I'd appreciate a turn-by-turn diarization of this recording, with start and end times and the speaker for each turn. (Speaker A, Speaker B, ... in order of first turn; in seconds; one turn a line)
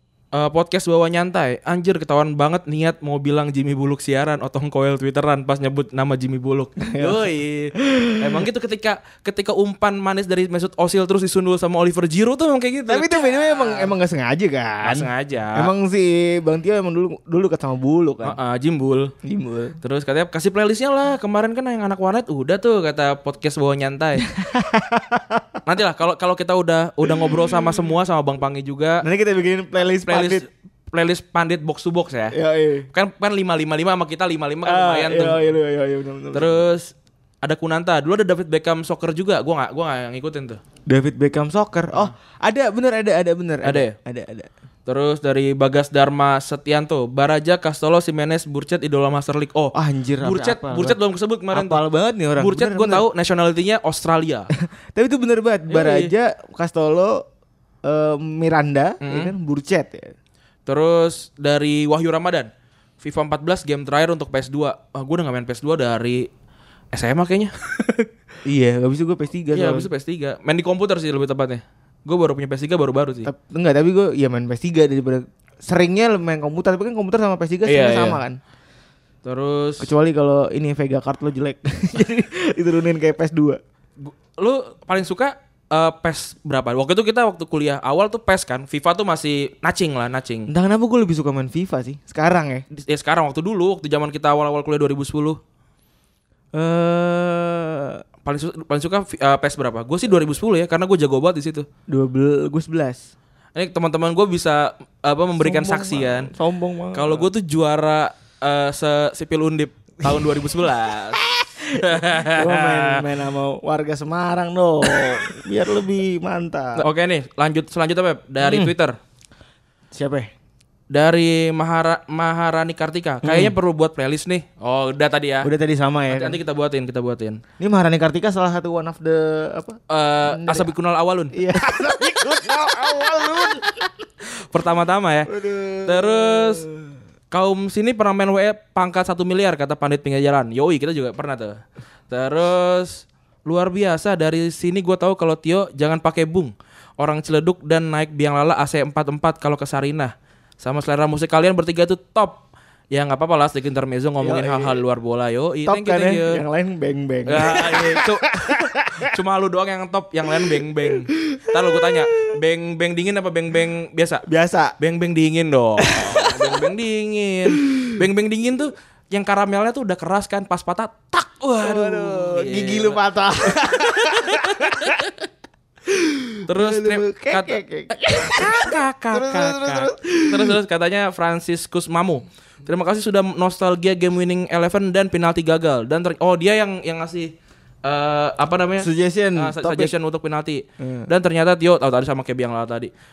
Speaker A: 0.3-13.9
Speaker B: 6.8-7.3
Speaker B: 7.8-8.3
Speaker B: 12.9-18.4
Speaker A: 14.8-15.7
Speaker A: 18.2-19.1
Speaker B: 19.2-19.8
Speaker A: 19.8-24.3
Speaker B: 24.3-25.6
Speaker A: 25.6-29.0
Speaker B: 27.1-27.3
Speaker B: 29.0-30.4
Speaker A: 30.1-32.4
Speaker B: 32.3-32.9
Speaker A: 32.9-35.4
Speaker B: 34.6-36.6
Speaker A: 36.3-36.9
Speaker A: 37.4-40.6
Speaker B: 40.9-44.5
Speaker A: 43.6-44.0
Speaker A: 44.9-51.8
Speaker B: 49.7-51.0
Speaker B: 51.5-53.0
Speaker A: 52.4-54.5
Speaker B: 54.9-57.2
Speaker A: 55.7-56.1
Speaker B: 57.8-60.1
Speaker A: 59.0-59.3
Speaker A: 60.6-62.5
Speaker A: 63.0-66.3
Speaker A: 66.9-68.0
Speaker B: 68.5-69.9
Speaker A: 69.5-73.3
Speaker B: 73.2-78.4
Speaker A: 77.7-78.2
Speaker A: 79.2-79.9
Speaker B: 79.8-83.6
Speaker A: 84.0-90.5
Speaker B: 90.5-92.7
Speaker A: 92.8-95.4
Speaker B: 96.5-98.0
Speaker A: 98.2-101.7
Speaker B: 101.9-103.1
Speaker A: 103.5-106.3
Speaker B: 105.4-107.3
Speaker A: 106.9-113.0
Speaker B: 111.2-116.8
Speaker A: 116.8-119.0
Speaker B: 118.4-118.7
Speaker B: 119.9-120.3
Speaker A: 120.9-125.5
Speaker B: 123.2-123.5
Speaker B: 125.4-126.4
Speaker A: 126.1-127.4
Speaker B: 127.6-130.7
Speaker A: 129.9-132.2
Speaker B: 131.3-133.9
Speaker A: 134.5-135.3
Speaker B: 135.3-136.9
Speaker A: 135.8-136.6
Speaker A: 137.3-156.4
Speaker B: 154.2-154.8
Speaker B: 155.7-159.1
Speaker A: 157.3-164.2
Speaker B: 161.2-162.1
Speaker B: 164.3-164.7
Speaker A: 164.8-173.0
Speaker B: 165.9-166.3
Speaker B: 171.6-175.0
Speaker A: 173.6-175.0
Speaker B: 175.9-180.5
Speaker A: 176.5-177.6
Speaker A: 178.2-192.9
Speaker B: 188.8-189.9
Speaker B: 190.8-191.1